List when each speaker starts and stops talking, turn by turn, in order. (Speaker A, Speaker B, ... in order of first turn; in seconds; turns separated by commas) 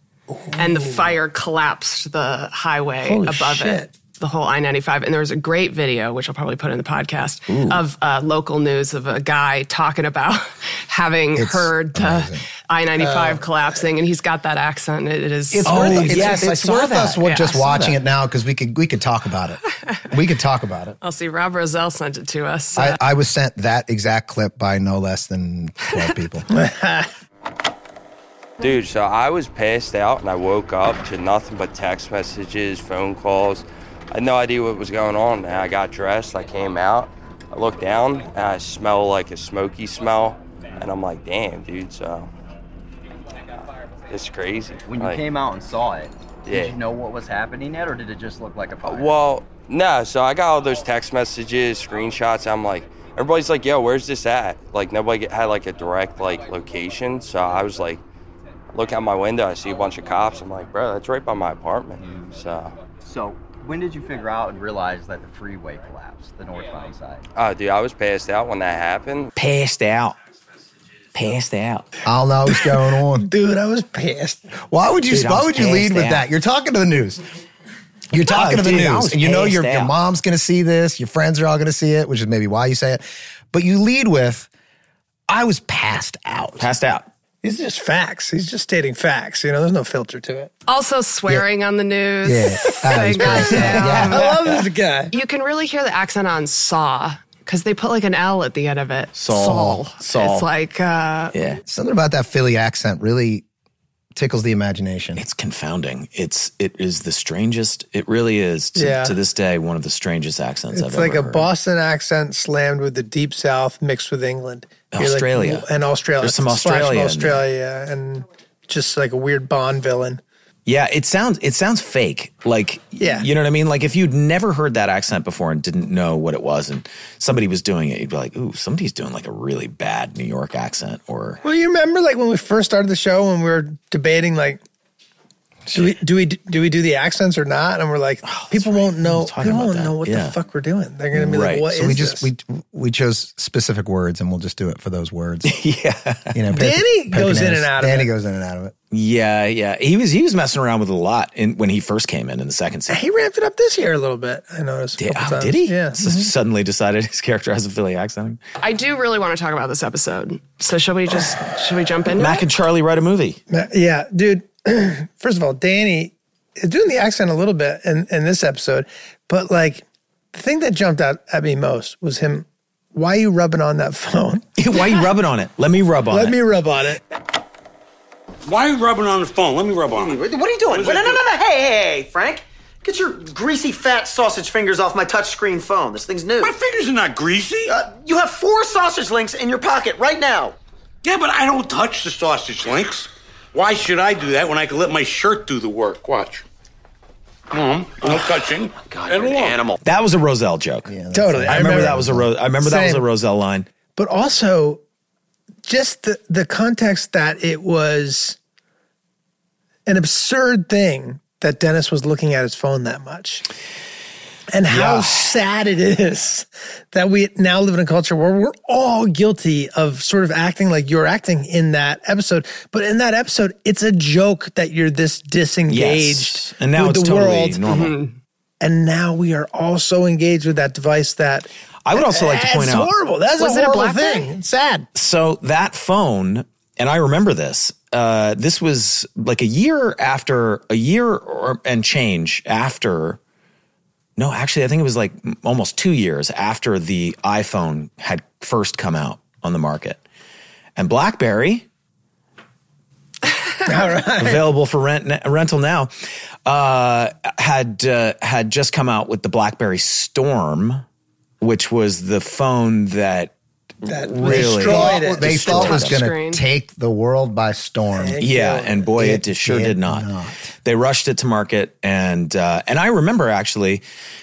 Speaker A: 0.3-1.1, Speaker B: 0.5-16.4, Speaker A: 3.0-3.9, Speaker C: 7.5-7.8, Speaker D: 11.3-12.4, Speaker A: 13.0-13.4, Speaker D: 15.5-21.0, Speaker C: 15.6-18.0, Speaker B: 17.2-17.7, Speaker B: 21.0-23.0, Speaker D: 22.8-26.5, Speaker A: 26.5-27.1, Speaker E: 28.6-42.3, Speaker E: 44.1-45.2, Speaker F: 44.8-49.2, Speaker E: 46.5-46.7, Speaker E: 48.8-58.0, Speaker E: 58.7-62.8, Speaker F: 62.0-62.4, Speaker F: 63.0-67.2, Speaker E: 67.3-69.3, Speaker C: 69.3-70.2, Speaker C: 71.1-71.8, Speaker D: 72.0-73.3, Speaker A: 73.2-74.5, Speaker D: 74.7-77.2, Speaker C: 75.1-76.3, Speaker D: 78.1-84.5, Speaker C: 78.3-79.9, Speaker D: 85.3-86.7, Speaker C: 86.6-87.1, Speaker A: 87.4-90.5, Speaker B: 90.7-94.2, Speaker D: 92.2-94.2, Speaker A: 93.2-95.1, Speaker C: 94.2-94.6, Speaker B: 95.1-101.3, Speaker C: 99.2-100.5, Speaker C: 101.3-101.6, Speaker D: 101.7-103.4, Speaker D: 104.1-105.2, Speaker C: 105.2-111.5, Speaker A: 108.8-109.2, Speaker A: 110.7-120.2, Speaker C: 114.9-115.7, Speaker C: 116.2-117.4, Speaker C: 120.6-131.4, Speaker A: 123.0-123.3, Speaker A: 131.4-134.6, Speaker C: 135.7-135.9, Speaker A: 135.7-142.2, Speaker C: 138.2-140.3, Speaker C: 141.1-141.7, Speaker D: 141.7-145.6, Speaker C: 145.4-146.4, Speaker D: 146.3-148.7, Speaker A: 146.5-148.1, Speaker C: 148.9-153.0, Speaker A: 152.9-156.2, Speaker C: 155.0-158.4, Speaker B: 158.6-162.4, Speaker C: 162.1-163.4, Speaker A: 163.5-174.4, Speaker C: 174.6-176.3, Speaker A: 176.1-177.0, Speaker G: 178.4-181.2, Speaker H: 180.0-186.5, Speaker G: 186.4-187.8, Speaker H: 187.7-190.6, Speaker G: 191.0-196.4, Speaker G: 197.5-199.7, Speaker H: 198.8-199.8, Speaker C: 199.8-200.9, Speaker D: 200.8-202.3, Speaker A: 201.1-202.1, Speaker C: 201.5-203.7, Speaker A: 202.6-203.0, Speaker A: 203.9-204.8, Speaker A: 205.6-208.4, Speaker A: 209.8-213.4, Speaker A: 214.5-227.7, Speaker C: 214.7-215.4, Speaker C: 225.7-227.9, Speaker B: 227.7-228.2, Speaker A: 228.6-234.9, Speaker C: 231.8-232.9, Speaker B: 233.4-234.3, Speaker C: 234.9-243.2, Speaker C: 244.2-250.0, Speaker C: 250.8-251.7, Speaker A: 253.6-254.4, Speaker C: 254.2-255.9, Speaker C: 256.4-260.8, Speaker C: 261.4-266.0, Speaker A: 263.9-265.4, Speaker D: 264.2-268.2, Speaker B: 265.4-266.4, Speaker A: 267.9-268.9, Speaker C: 268.2-270.1, Speaker D: 268.9-270.5, Speaker C: 270.6-273.8